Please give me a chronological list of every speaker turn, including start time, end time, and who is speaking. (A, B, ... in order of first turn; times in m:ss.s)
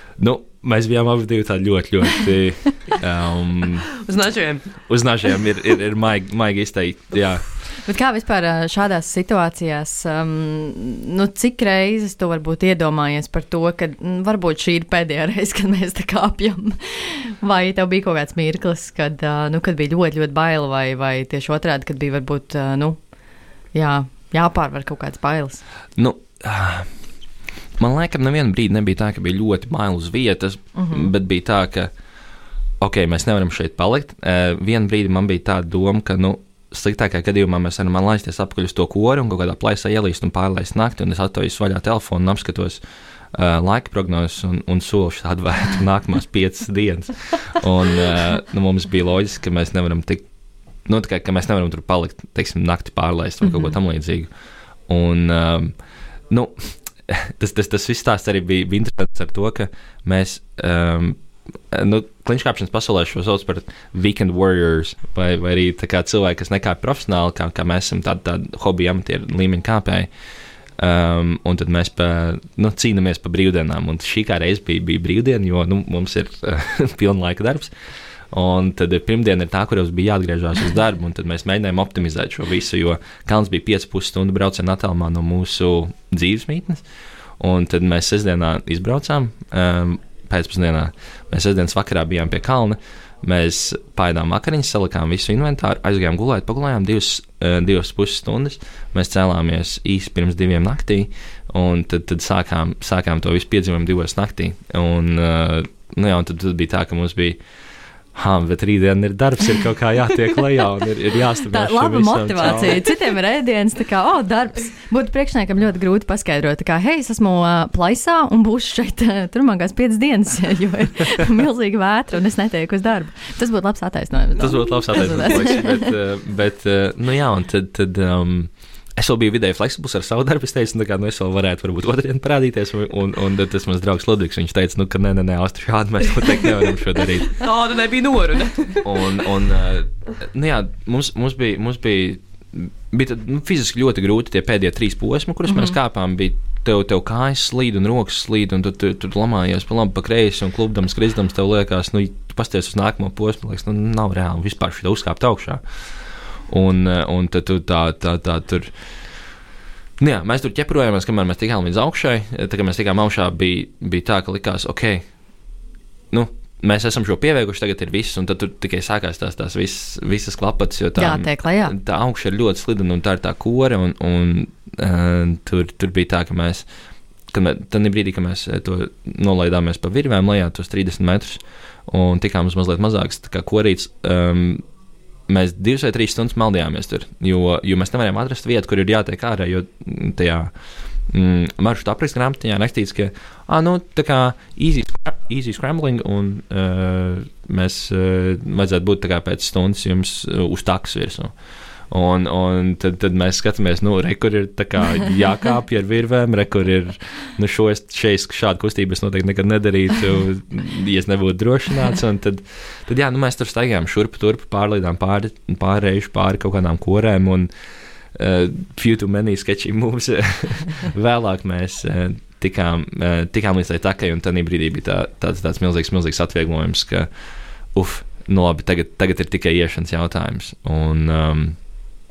0:00.2-0:04.0 A
0:04.0-0:04.7 B
0:04.9-0:07.4 A
0:07.8-0:23.0 C
0:23.7-0:25.6 C
0:26.0-0:26.9 A
0:27.8-0:31.9 A
0:30.8-0:31.1 C
0:32.8-0:42.8 A
0:43.3-0:50.2 A
0:50.8-0:54.3 A
0:54.9-0:55.8 A
0:56.3-1:01.2 A
1:01.7-1:10.1 A
1:10.8-1:17.7 A
1:18.3-1:26.8 A
1:27.4-1:47.4 A
1:48.1-1:52.9 A
1:51.5-2:05.9 C
2:04.4-2:17.4 A
2:17.3-2:19.0 B
2:18.8-2:39.3 A
2:40.0-2:45.0 A
2:46.1-2:56.7 A
2:51.0-2:51.8 C
2:57.3-3:04.6 A
3:05.3-3:10.5 A
3:11.0-3:21.3 A
3:21.9-3:37.5 A
3:38.1-3:51.6 A